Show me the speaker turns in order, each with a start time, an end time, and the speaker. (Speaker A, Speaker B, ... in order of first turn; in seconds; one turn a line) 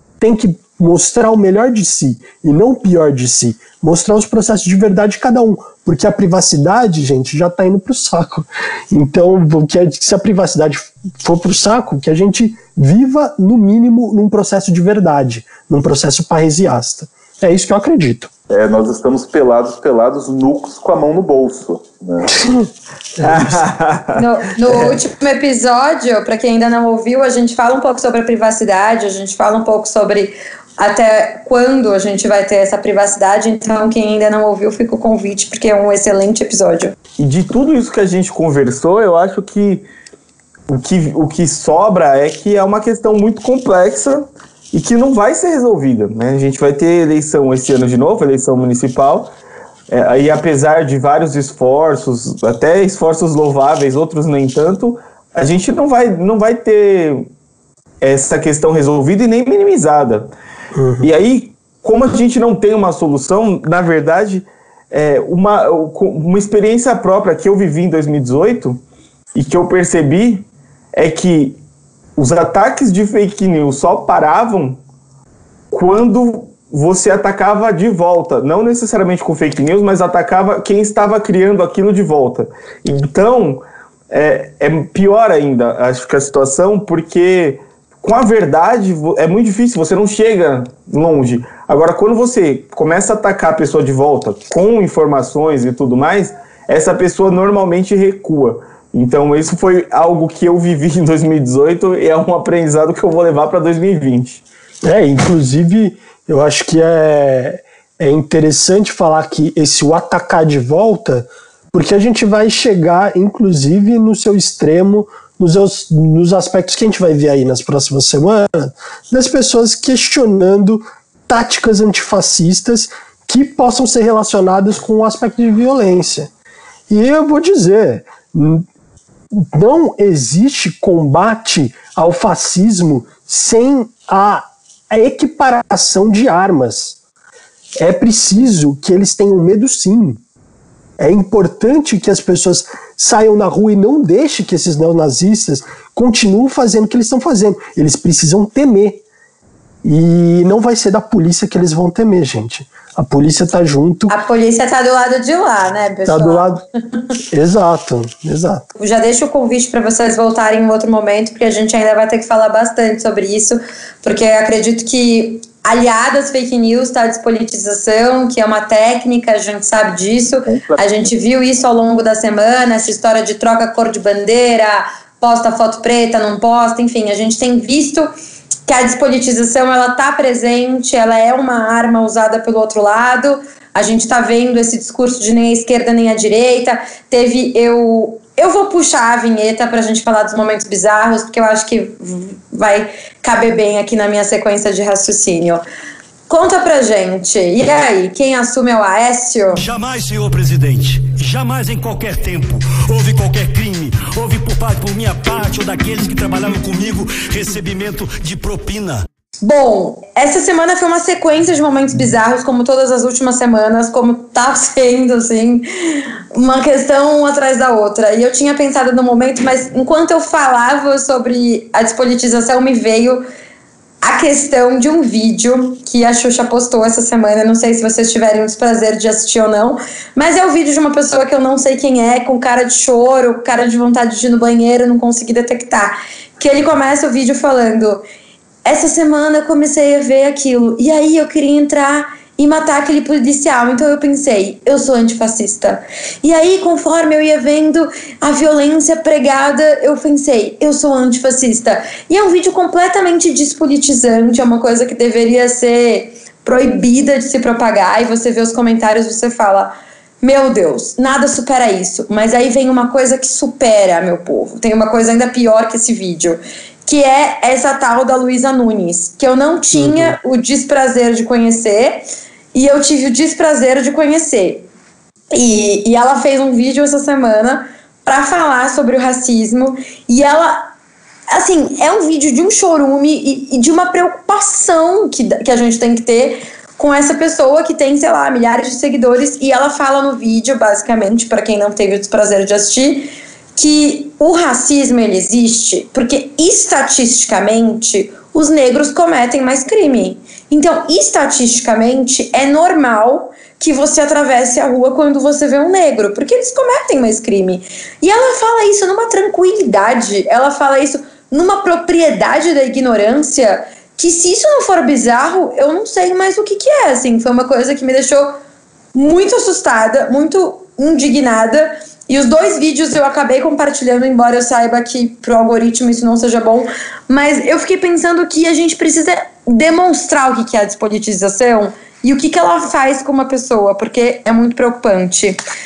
Speaker A: 0.2-18.3
Speaker B: 18.5-22.4
Speaker A: 22.3-22.7
Speaker A: 23.2-23.6
Speaker C: 23.2-24.9
Speaker D: 24.1-36.9
Speaker C: 37.2-39.9
Speaker C: 40.7-49.3
Speaker C: 49.9-57.3
Speaker C: 58.0-60.3
Speaker A: 60.7-61.1
Speaker C: 61.0-68.8
Speaker C: 69.3-71.6
Speaker C: 72.2-74.8
Speaker C: 75.7-104.4
Speaker A: 104.8-126.3
Speaker A: 126.9-128.7
Speaker A: 129.3-137.0
Speaker A: 137.8-140.2
Speaker A: 141.0-149.0
Speaker A: 149.8-154.1
Speaker D: 154.1-156.6
Speaker A: 156.1-156.6
Speaker A: 157.3-158.7
Speaker D: 158.8-178.1
Speaker B: 170.4-171.1
Speaker D: 178.7-195.6
Speaker D: 196.3-199.6
Speaker E: 199.6-209.0
Speaker D: 209.4-215.7
Speaker D: 216.3-223.2
Speaker D: 224.0-238.0
Speaker D: 238.6-274.7
Speaker A: 269.7-270.1
Speaker D: 275.3-280.7
Speaker D: 281.3-318.3
Speaker D: 318.9-335.4